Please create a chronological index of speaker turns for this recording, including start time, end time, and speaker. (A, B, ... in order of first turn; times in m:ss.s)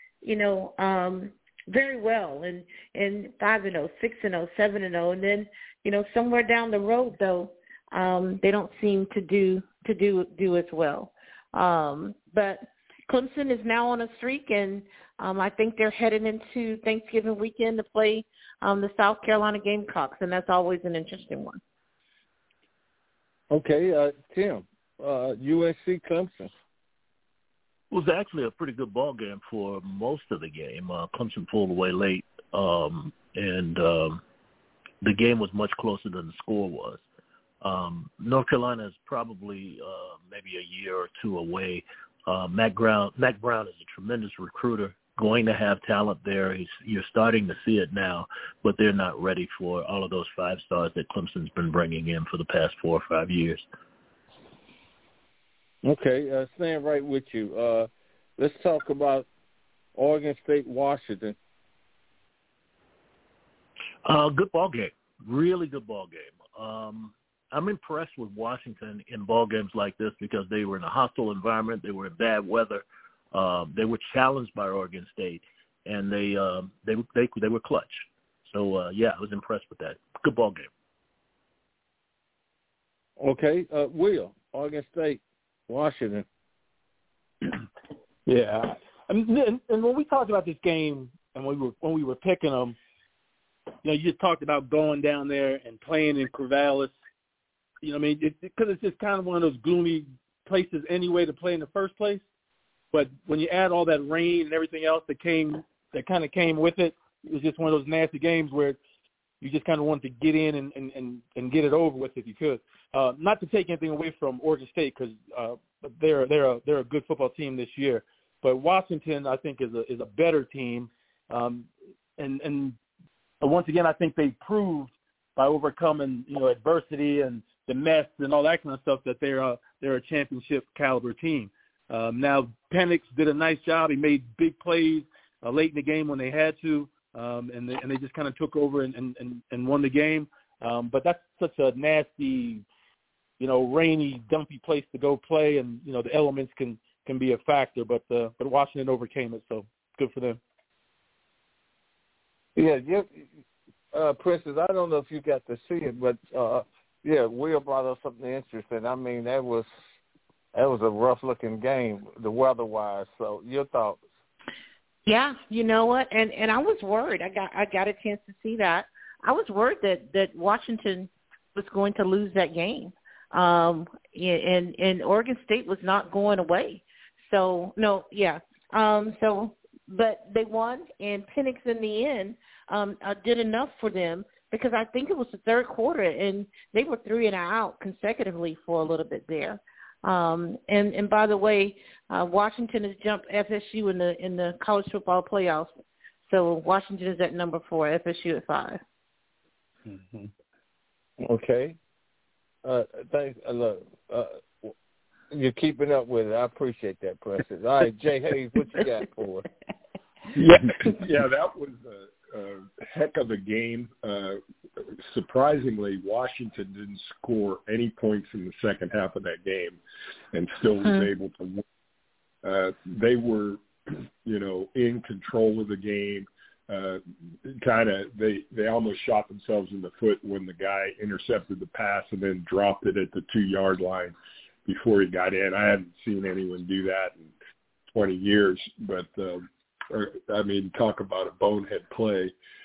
0:00.2-0:21.6 A
0:23.5-0:26.5 B
0:27.9-0:34.2 C
0:35.0-0:37.0 C
0:37.6-0:53.6 C
0:55.8-0:59.3 B
0:59.9-1:01.4 B
1:04.0-1:20.7 C
1:23.2-1:26.2 B
1:28.2-1:32.8 D
1:33.8-1:36.9 D
1:37.8-1:42.2 D
1:42.9-1:48.8 D
1:49.4-2:02.8 D
2:03.4-2:22.6 D
2:23.4-2:30.4 D
2:32.6-2:33.3 B
2:33.9-2:39.7 B
2:40.5-2:44.0 B
2:45.0-3:15.7 A
3:16.3-3:18.8 A
3:19.9-3:20.3 D
3:21.2-3:21.8 B
3:22.6-3:24.7 B
3:25.3-3:29.4 B
3:30.3-3:34.4 E
3:35.0-3:39.8 E
3:40.3-3:41.6 E
3:42.4-3:54.1 E
3:54.6-3:57.3 E
3:57.9-4:02.3 E